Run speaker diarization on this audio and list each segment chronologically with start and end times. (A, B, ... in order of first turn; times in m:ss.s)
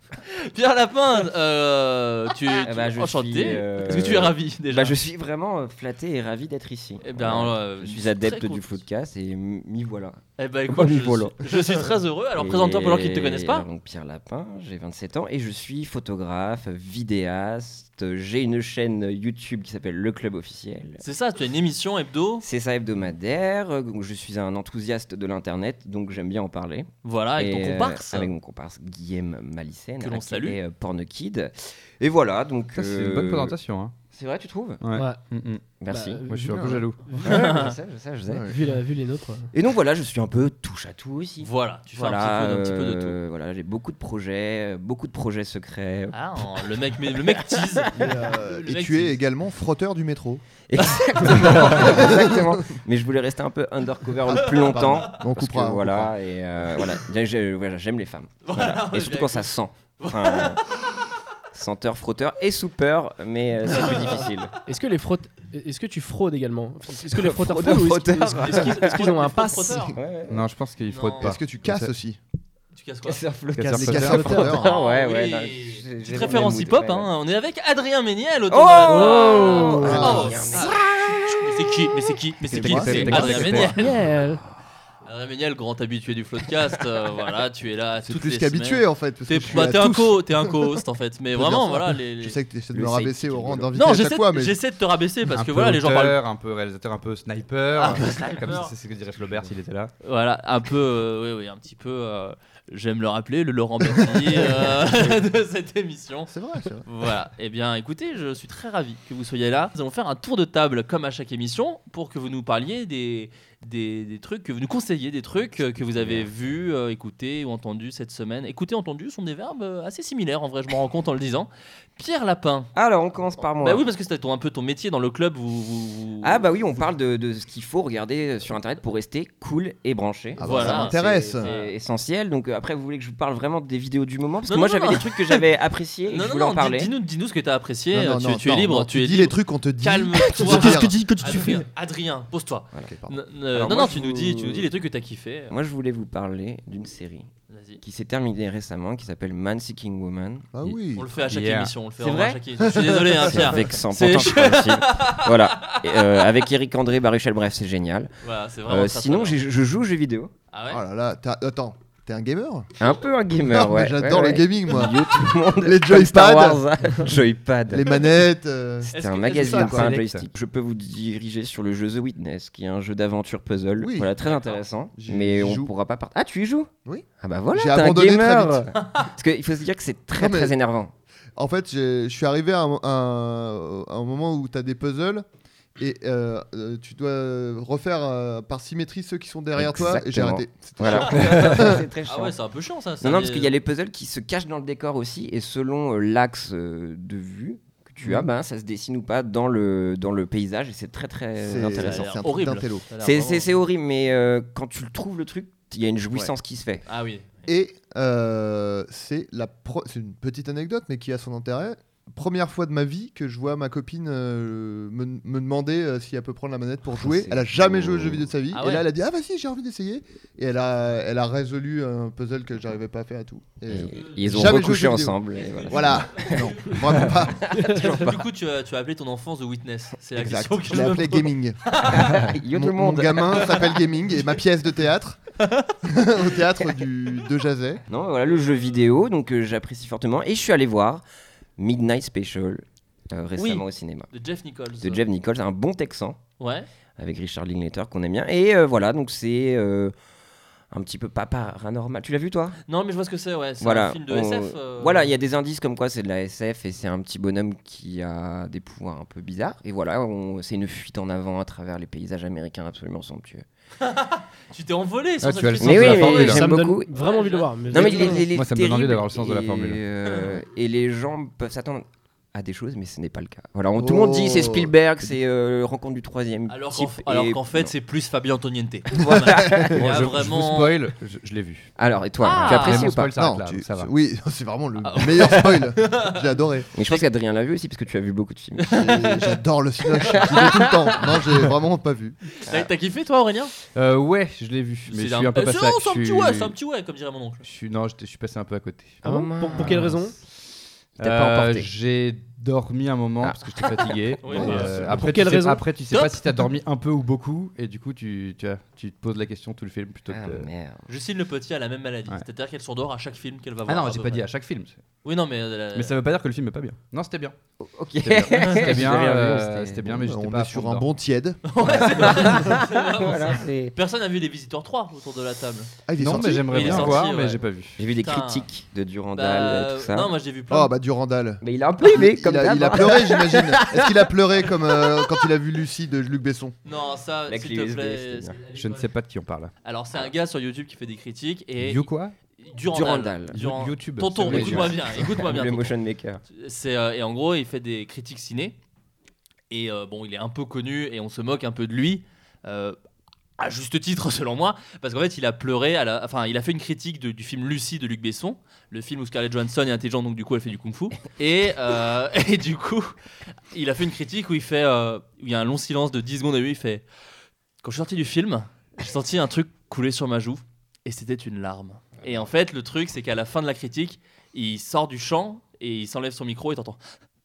0:00.2-0:04.9 A
0:02.4-0:21.0 B
0:07.0-0:08.8 A
0:10.4-0:13.6 A
0:21.0-0:22.4 A
0:22.4-0:33.6 B
0:27.0-0:28.3 A
0:30.0-0:30.6 A
0:32.7-0:33.9 C
0:34.1-0:34.8 B
0:34.8-0:35.7 C
0:34.9-0:35.2 D
0:35.8-0:36.2 B
0:35.9-0:37.4 D
0:36.3-0:37.0 C
0:36.5-0:36.8 E
0:37.1-0:38.6 B
0:37.2-0:37.7 A
0:38.3-0:38.6 E
0:38.5-0:39.5 D
0:39.5-0:48.1 B
0:41.4-0:43.2 A
0:46.1-0:49.2 A
0:47.9-0:50.4 E
0:50.7-1:00.6 B
0:51.4-0:51.8 C
0:51.4-0:51.8 A
0:51.6-0:52.8 E
0:54.3-0:55.1 A
0:54.6-0:56.1 E
0:58.4-1:01.0 A
1:01.5-1:04.5 B
1:04.6-1:10.0 D
1:06.9-1:09.1 B
1:08.5-1:10.0 A
1:09.7-1:10.5 B
1:10.3-1:11.9 C
1:10.9-1:11.3 A
1:11.2-1:12.2 E
1:12.7-1:13.2 A
1:13.0-1:17.1 B
1:13.5-1:14.4 C
1:13.6-1:14.7 E
1:13.8-1:14.6 D
1:14.5-1:23.9 A
1:18.5-1:21.5 B
1:18.9-1:20.0 D
1:19.7-1:20.4 E
1:22.5-1:23.7 E
1:22.5-1:23.8 C
1:22.8-1:23.3 B
1:23.0-1:24.4 D
1:25.0-1:32.4 A
1:28.0-1:30.8 E
1:31.3-1:34.6 E
1:32.7-1:33.7 B
1:33.7-1:36.2 A
1:35.2-1:39.9 C
1:37.7-1:38.7 A
1:40.0-1:46.3 A
1:44.8-1:45.2 B
1:46.3-1:46.8 E
1:46.8-2:02.7 A
1:56.0-1:56.3 B
2:02.7-2:03.8 B
2:03.6-2:06.4 A
2:06.2-2:16.9 B
2:10.4-2:11.5 E
2:10.4-2:11.7 A
2:14.5-2:15.4 A
2:16.1-2:25.5 A
2:17.9-2:21.4 E
2:20.5-2:21.5 B
2:22.8-2:23.2 E
2:23.5-2:24.7 B
2:25.5-2:27.3 B
2:27.5-2:27.8 A
2:27.8-2:30.7 B
2:30.5-2:31.1 E
2:30.9-2:36.2 A
2:31.2-2:31.7 C
2:32.0-2:38.1 B
2:32.6-2:33.6 E
2:38.2-2:39.4 A
2:38.7-2:40.3 B
2:40.5-2:40.8 A
2:40.7-2:42.7 E
2:42.8-2:48.0 B
2:43.4-2:46.6 E
2:47.7-2:48.9 E
2:48.9-2:49.9 A
2:48.9-2:56.7 B
2:49.5-2:50.0 E
2:49.5-2:50.2 C
2:53.8-2:54.1 E
2:54.2-2:54.6 A
2:55.0-2:55.7 E
2:56.8-2:58.7 E
2:57.2-3:00.9 B
3:00.2-3:00.5 E
3:01.4-3:05.2 E
3:05.8-3:11.8 E
3:09.6-3:12.3 B
3:11.0-3:13.5 A
3:13.0-3:22.1 B
3:21.4-3:22.8 E
3:21.7-3:23.5 A
3:23.0-3:26.8 B
3:26.9-3:27.4 A
3:27.4-3:47.6 E
3:37.0-3:38.2 B
3:38.5-3:38.9 A
3:43.7-3:48.2 B
3:43.7-3:44.6 A
3:45.4-3:52.3 A
3:50.2-3:51.7 E
3:51.9-3:53.5 B
3:52.3-3:55.2 E
3:55.4-3:55.8 A
3:55.8-3:57.8 E
3:57.9-4:01.0 B
4:01.6-4:04.1 B
4:03.4-4:05.0 A
4:04.8-4:06.2 B
4:06.4-4:06.6 A
4:07.0-4:09.9 B
4:10.7-4:12.6 B
4:12.6-4:15.1 A
4:13.6-4:23.4 B
4:23.8-4:28.3 A
4:25.2-4:26.4 C
4:25.6-4:26.9 B
4:26.2-4:28.3 D
4:27.7-4:37.7 B
4:28.3-4:29.8 C
4:33.8-4:34.7 E
4:36.5-4:40.8 A
4:38.9-4:39.9 B
4:39.1-4:39.8 E
4:39.7-4:41.7 C
4:41.8-4:43.1 B
4:42.2-4:42.9 A
4:42.4-4:43.9 C
4:43.2-4:46.7 E
4:44.8-4:46.2 A
4:46.7-4:47.0 A
4:46.7-4:49.2 B
4:48.6-4:49.3 A
4:48.7-4:52.2 E
4:50.2-4:50.8 B
4:52.4-4:53.5 A
4:53.7-4:56.5 C
4:54.9-4:57.4 A
4:57.4-4:59.9 C
4:59.0-5:00.0 B
4:59.0-5:00.2 D
5:01.0-5:01.7 B
5:01.0-5:10.5 C
5:03.2-5:04.8 B
5:04.2-5:04.8 A
5:04.4-5:04.9 E
5:04.4-5:05.6 D
5:05.9-5:06.2 A
5:10.1-5:10.9 B
5:10.9-5:14.2 A
5:13.7-5:14.8 C
5:15.0-5:15.9 A
5:15.7-5:17.4 C
5:17.6-5:20.0 B
5:18.0-5:20.8 C
5:18.3-5:18.7 A
5:19.9-5:22.3 E
5:21.5-5:25.7 A
5:21.6-5:23.7 B
5:25.8-5:27.0 E
5:26.0-5:27.8 C
5:26.5-5:27.4 A
5:26.6-5:26.9 B
5:27.8-5:30.1 B
5:28.0-5:28.5 A
5:29.1-5:30.7 A
5:30.5-5:36.5 E
5:31.4-5:34.1 B
5:34.6-5:35.2 B
5:36.6-5:38.9 A
5:37.3-5:38.4 B
5:38.5-5:39.5 C
5:39.6-5:41.9 A
5:41.6-5:42.1 C
5:42.4-5:45.7 A
5:42.7-5:43.5 B
5:43.3-5:44.8 C
5:44.2-5:46.2 B
5:46.3-5:48.6 A
5:49.5-5:52.8 A
5:53.4-6:02.9 A
6:03.5-6:06.8 A
6:07.6-6:16.8 A